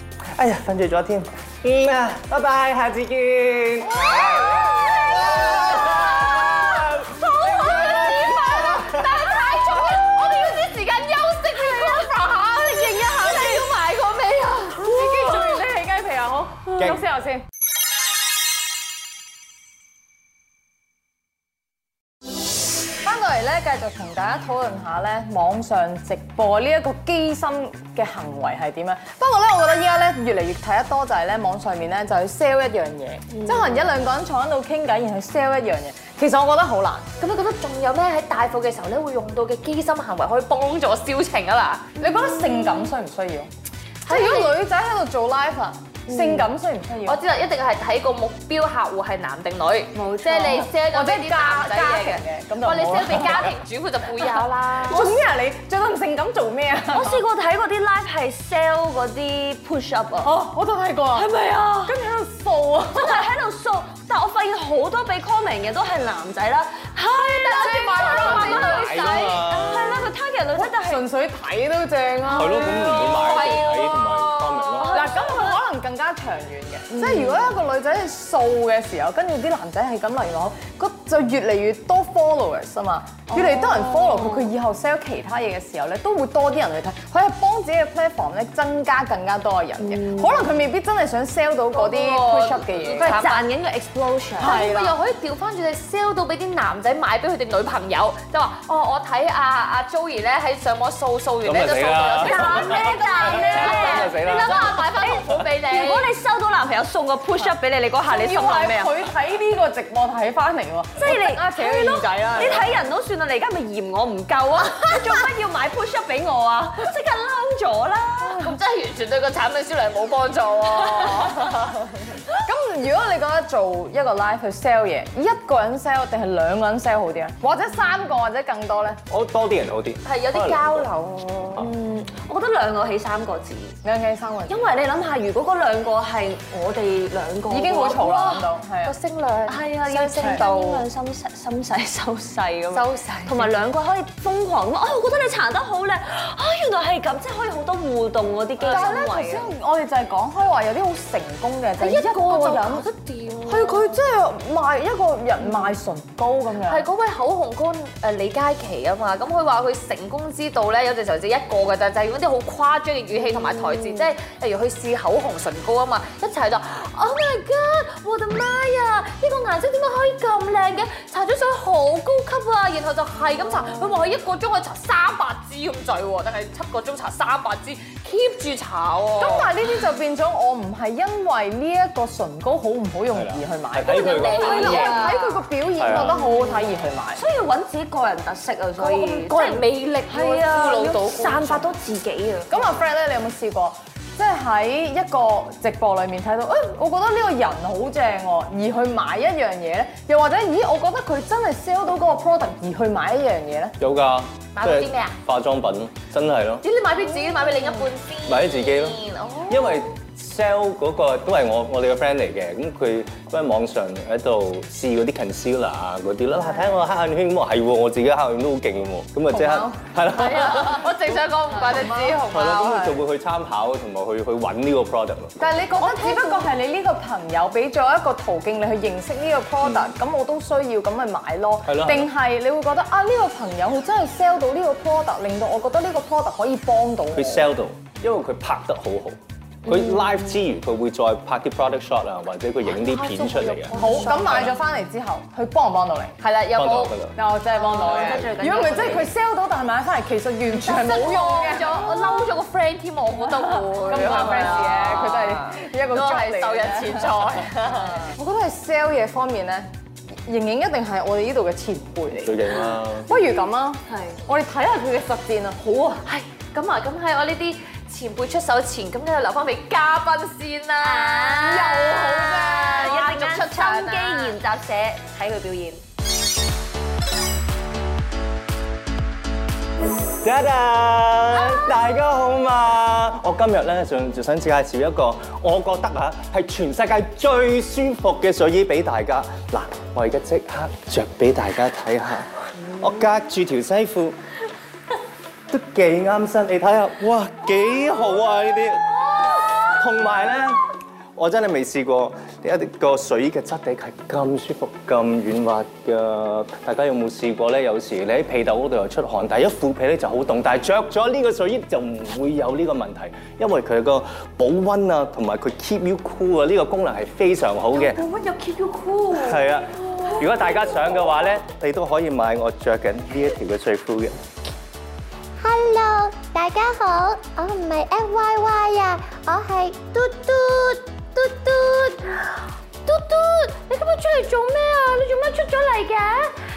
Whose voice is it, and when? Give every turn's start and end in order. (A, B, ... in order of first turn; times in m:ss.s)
0:00.4-0:09.1 A
0:04.1-0:05.5 B
0:05.5-0:15.4 C
0:11.5-0:13.6 B
0:14.8-0:17.4 D
0:15.0-0:15.4 B
0:16.8-0:17.0 A
0:23.0-0:37.1 D
0:37.2-0:42.0 C
0:42.0-0:43.5 D
0:42.0-0:42.9 B
0:44.0-0:44.6 C
0:44.0-0:47.2 D
0:46.1-0:46.5 B
0:47.0-0:55.1 C
0:49.9-0:50.7 B
0:50.4-0:53.5 D
0:54.9-0:57.2 D
0:54.9-0:55.2 B
0:56.9-1:00.4 B
1:00.2-1:01.3 D
1:01.1-1:01.9 B
1:01.9-1:03.2 D
1:02.9-1:11.1 B
1:07.3-1:09.4 C
1:07.5-1:08.8 D
1:08.1-1:10.1 A
1:10.5-1:13.1 D
1:12.3-1:15.0 A
1:12.5-1:13.1 B
1:12.6-1:15.1 C
1:14.8-1:15.6 B
1:14.9-1:33.2 D
1:17.0-1:17.5 B
1:23.3-1:24.5 B
1:29.8-1:30.3 B
1:31.9-1:34.6 B
1:32.0-1:33.4 C
1:34.4-1:46.1 C
1:34.4-1:35.0 D
1:41.4-1:44.8 A
1:42.2-1:49.0 B
1:48.0-1:52.8 D
1:51.0-1:58.5 B
1:58.2-2:01.6 C
2:01.0-2:01.7 D
2:02.4-2:09.0 D
2:09.1-2:10.9 A
2:10.0-2:11.7 C
2:11.6-2:13.8 B
2:13.8-2:14.7 D
2:14.5-2:18.1 B
2:17.5-2:19.0 D
2:17.7-2:20.9 C
2:19.5-2:29.5 B
2:19.8-2:20.4 D
2:22.7-2:23.6 C
2:28.6-2:29.0 C
2:28.6-2:32.8 D
2:31.8-2:34.0 C
2:33.5-2:36.9 D
2:36.6-2:59.7 C
2:59.2-3:07.2 D
3:03.1-3:05.0 A
3:03.9-3:05.2 B
3:03.9-3:05.5 C
3:05.8-3:06.2 A
3:05.9-3:12.5 B
3:08.8-3:11.7 C
3:12.5-3:23.7 D
3:23.8-3:26.6 A
3:24.5-3:25.2 C
3:26.6-3:29.9 C
3:28.2-3:40.9 A
3:39.3-3:39.8 D
3:40.1-3:42.8 C
3:41.6-3:43.0 D
3:42.3-3:45.4 A
3:45.4-3:57.5 D
3:45.8-3:46.5 B
3:51.6-3:52.1 A
3:57.1-4:04.5 A
4:02.6-4:04.6 C
4:03.8-4:06.1 D
4:06.2-4:07.0 C
4:06.5-4:07.1 A
4:07.1-4:12.3 D
4:07.5-4:09.1 B
4:07.9-4:08.3 A
4:10.5-4:18.1 C
4:13.2-4:19.6 D
4:20.2-4:22.4 D
4:22.1-4:23.1 A
4:23.0-4:25.7 D
4:23.9-4:24.2 B
4:26.0-4:34.4 C
4:30.8-4:35.8 B
4:32.0-4:32.7 D
4:40.2-4:54.2 A
4:55.5-5:18.0 A
4:59.1-4:59.8 B
5:17.7-5:21.0 C
5:19.1-5:24.2 A
5:25.4-5:30.9 E
5:31.4-5:31.8 E
5:32.9-5:36.3 C